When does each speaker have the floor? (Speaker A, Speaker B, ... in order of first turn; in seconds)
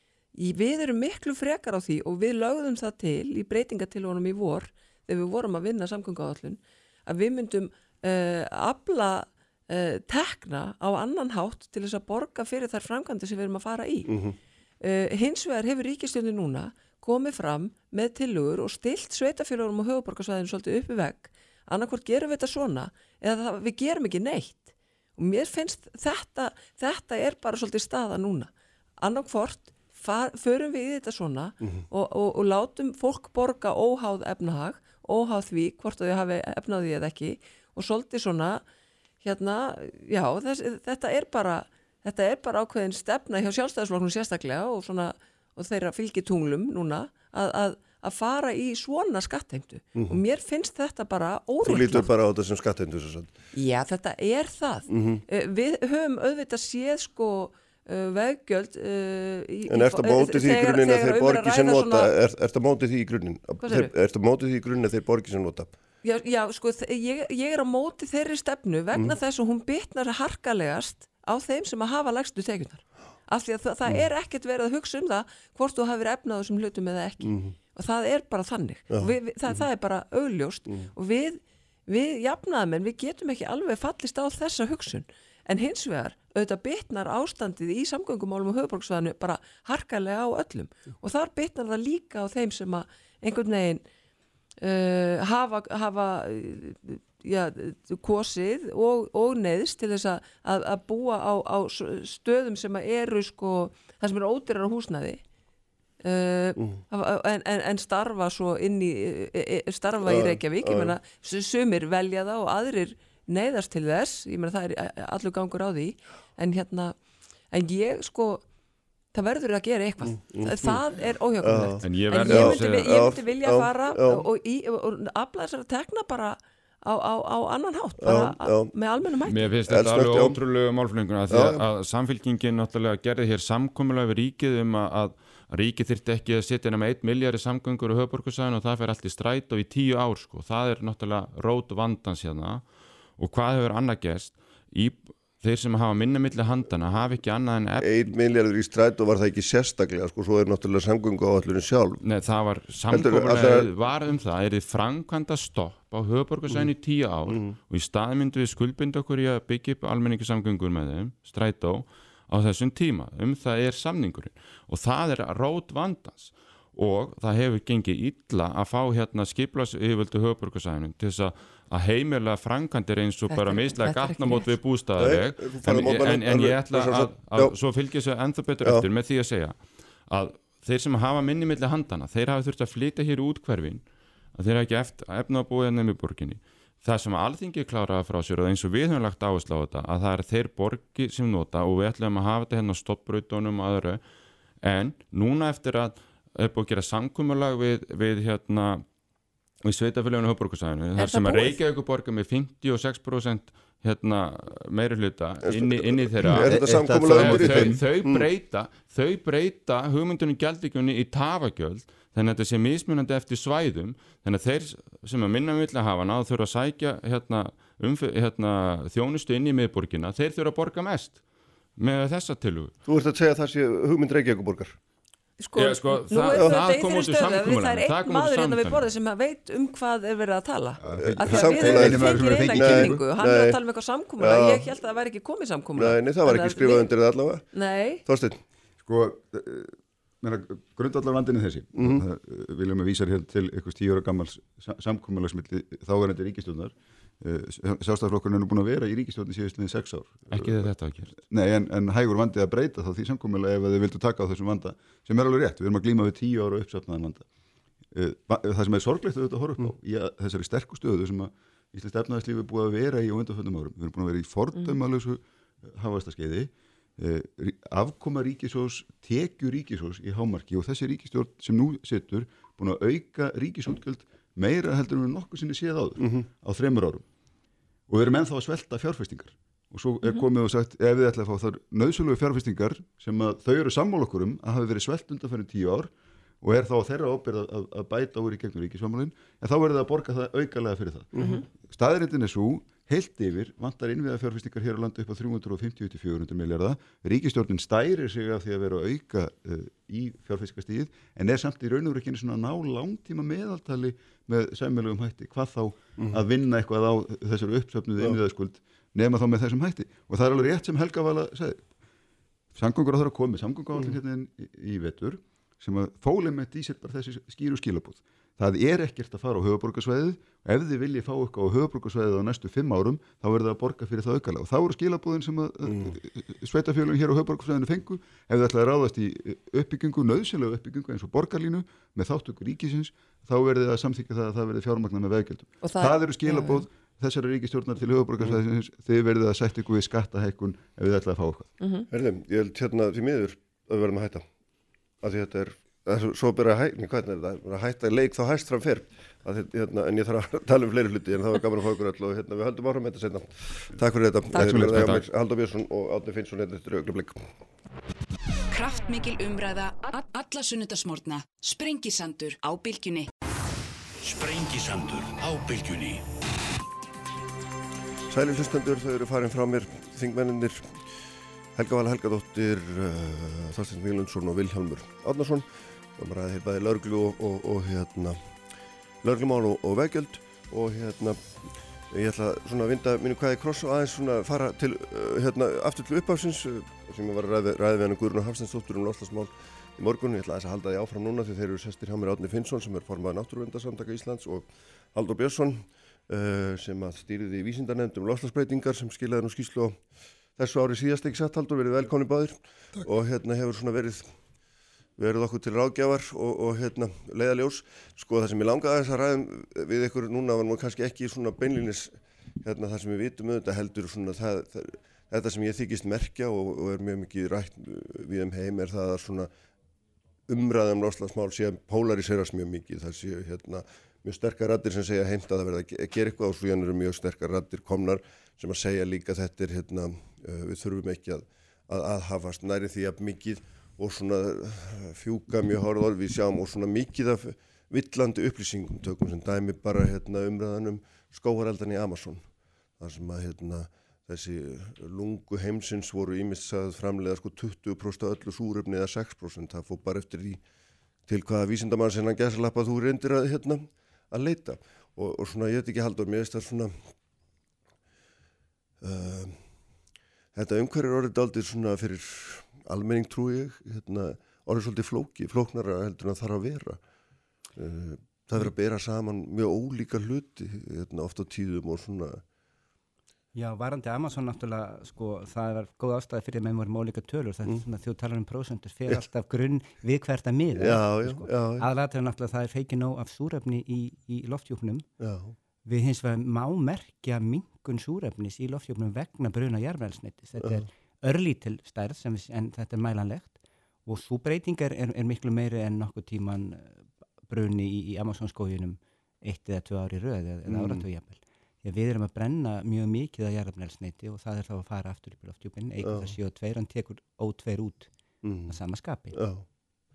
Speaker A: 0.3-14.2, 14.8-38.6, 39.2-52.1, 53.5-62.1, 63.6-63.9, 66.0-93.8, 94.6-105.2, 106.0-117.0, 117.5-118.4, 119.1-129.5, 173.3-174.5, 201.0-201.6, 225.4-236.9, 237.5-238.0, 291.2-291.5, 335.6-336.7, 341.6-341.9
Speaker B: 14.1-14.4, 51.6-53.4, 54.9-55.2, 59.7-65.8, 77.2-77.5, 78.9-79.6, 110.0-110.9, 120.1-120.8, 121.4-124.3, 128.0-128.7, 129.7-130.4, 131.3-131.6, 147.8-152.0, 152.9-153.7, 157.3-157.6, 175.0-177.6, 205.4-208.3, 222.9-224.8, 230.9-233.6, 234.2-234.7, 235.8-237.5, 238.1-238.4, 241.8-242.0, 276.0-276.3, 306.0-306.2, 341.9-344.3, 345.0-357.3, 368.1-370.8, 371.6-378.2, 379.0-381.2, 381.9-399.8, 400.4-404.1, 405.0-419.3, 420.3-442.2, 442.8-450.4, 451.1-456.9, 458.8-459.4, 460.3-466.8, 467.6-472.2, 480.6-481.7, 485.0-485.4, 500.5-500.8, 505.8-506.1, 508.2-508.6, 509.1-509.4
Speaker C: 121.8-122.9, 129.3-142.6, 143.2-147.9, 152.0-183.8, 184.3-194.0, 194.6-198.8, 199.6-221.2, 221.8-222.7, 225.6-228.8, 250.3-251.1
Speaker D: 206.3-207.8, 230.8-233.1, 238.8-257.3, 257.9-277.0, 277.9-311.7, 312.5-341.5, 354.4-355.0
Speaker E: 358.5-363.1
Speaker F: 364.0-366.0
Speaker G: 473.4-484.9, 485.6-507.9, 508.5-509.2